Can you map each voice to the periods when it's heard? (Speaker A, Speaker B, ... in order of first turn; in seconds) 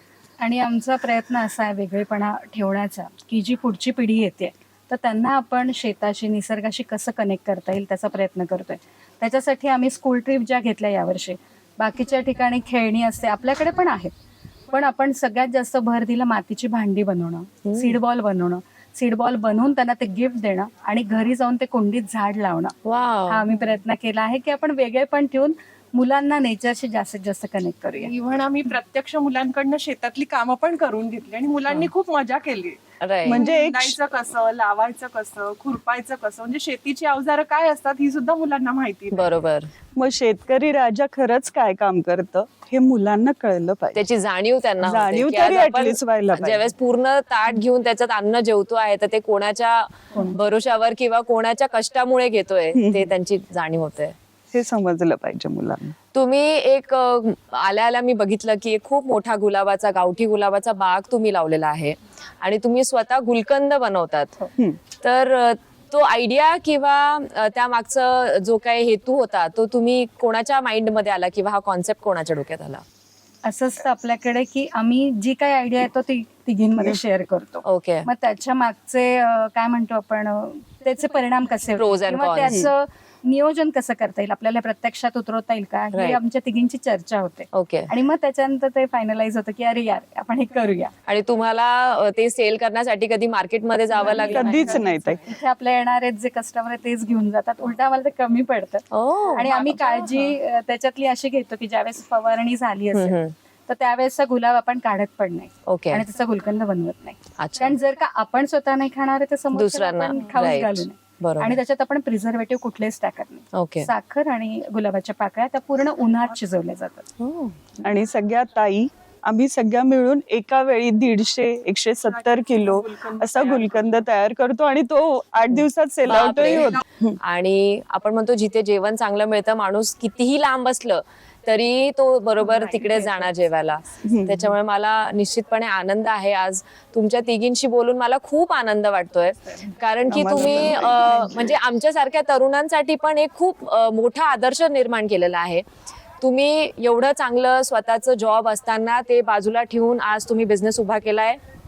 Speaker A: 0.4-14.1, 14.7-22.8, 23.3-28.1, 73.5-90.9, 94.0-117.1, 132.6-133.0
Speaker B: 17.6-18.0, 22.9-23.5, 33.0-33.4, 39.1-39.7, 44.0-54.1, 56.1-64.4, 65.0-72.8, 77.6-78.1, 81.8-82.7, 85.9-86.2, 87.5-87.9, 91.1-94.5, 98.9-99.5, 102.9-103.3, 105.7-106.0, 107.4-107.8, 109.5-111.6, 113.5-113.9, 117.2-117.6, 126.0-145.7, 146.2-151.4
Speaker C: 28.0-39.3, 93.9-95.3, 99.5-100.3, 122.0-124.0
Speaker D: 33.2-34.0, 40.0-44.0, 44.8-46.7, 52.7-53.1, 54.5-56.0, 94.3-95.2, 117.8-127.2, 134.0-134.5, 140.1-141.5